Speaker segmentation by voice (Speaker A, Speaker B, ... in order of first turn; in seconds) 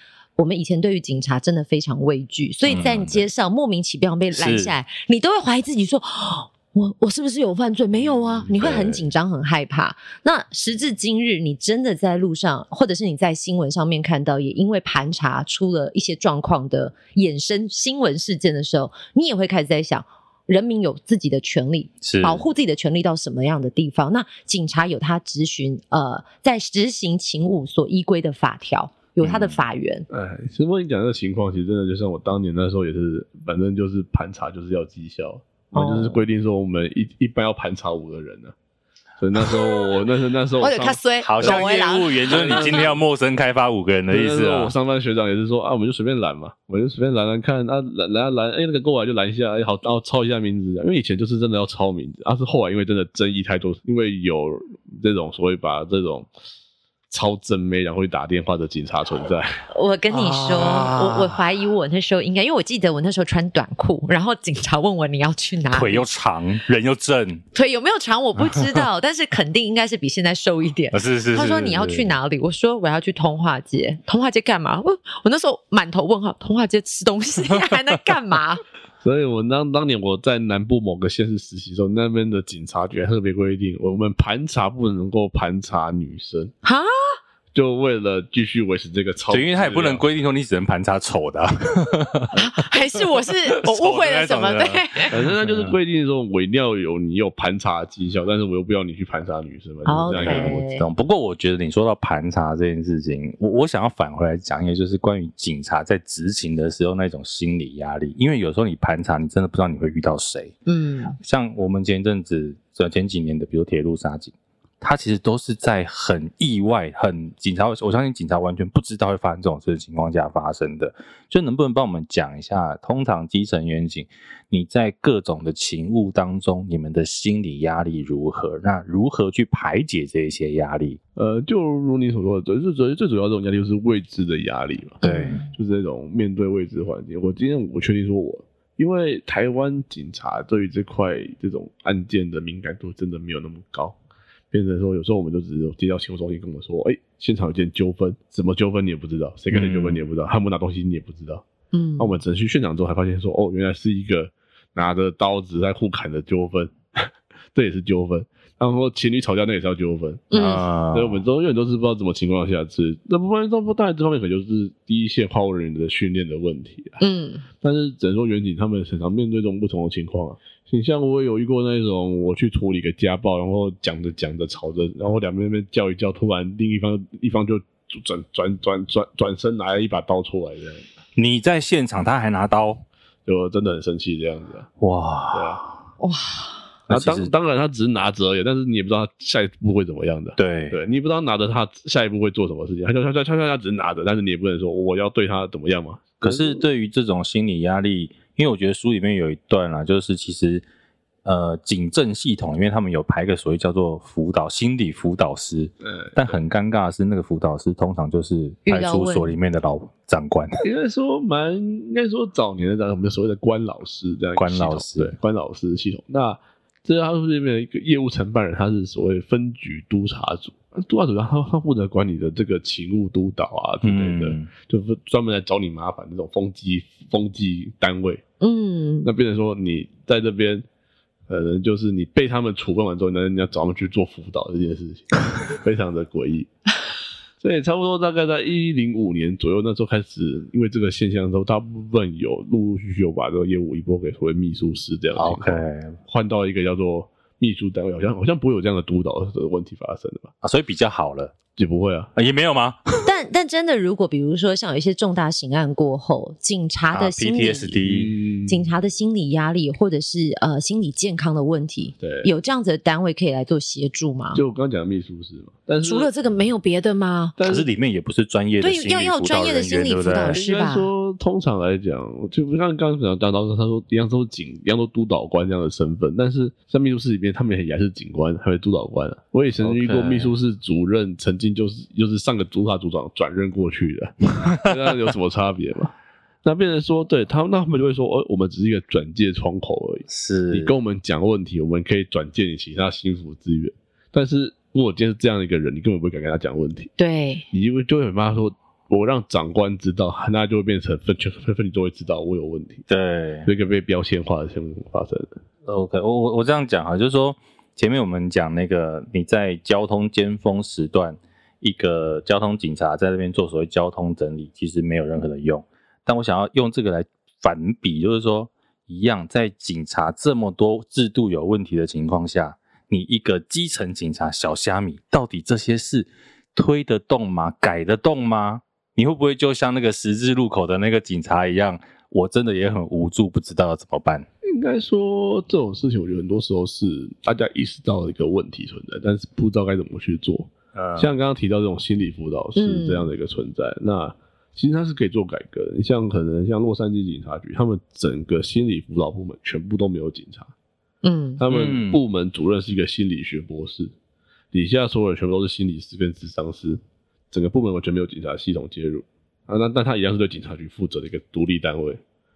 Speaker A: 0.4-30.1, 35.7-36.2, 39.5-39.9, 40.6-42.9, 59.7-66.0, 67.5-78.6, 86.6-87.2, 92.3-95.2, 99.9-100.8, 110.7-111.2, 135.0-135.5, 151.7-152.2, 160.3-160.7, 167.0-167.4, 186.0-186.6, 208.7-209.3, 228.4-229.1, 253.1-257.8, 258.5-264.4, 265.8-267.4, 268.6-270.9, 297.0-297.5, 342.6-343.1, 351.0-351.4
Speaker B: 2.7-3.2, 4.3-4.7, 8.5-9.0, 22.0-22.4, 29.2-29.6, 41.2-44.7, 60.1-61.4, 65.7-67.4, 68.4-68.8, 70.9-72.2, 89.3-92.4, 93.6-95.8, 100.1-110.6, 111.2-131.0, 135.1-135.4, 149.5-150.0, 160.3-161.2, 181.2-182.8, 184.8-185.8, 186.9-187.3, 190.4-190.8, 196.2-200.6, 201.2-210.7, 214.4-215.1, 223.8-224.5, 245.1-246.0, 250.4-251.4, 252.2-253.1, 256.9-258.1, 267.4-270.4, 279.6-280.3, 290.1-290.7, 302.9-303.5, 305.6-334.3, 340.8-341.1, 351.4-352.0
Speaker C: 30.1-38.5, 39.2-43.0, 44.1-56.3, 57.1-59.6, 79.0-86.5, 87.5-90.0, 95.1-100.6, 131.2-144.0, 144.5-151.4, 152.0-167.0, 167.6-180.9, 183.3-184.7, 185.3-185.6, 186.9-196.7, 205.8-206.4, 210.6-228.2, 229.0-230.7, 231.3-236.5, 237.4-250.3, 251.6-252.1, 257.8-258.7, 262.0-262.3, 264.3-266.1, 267.4-267.7, 270.3-296.9, 297.5-302.9, 303.5-305.3, 334.4-350.5, 351.4-353.9, 354.5-362.0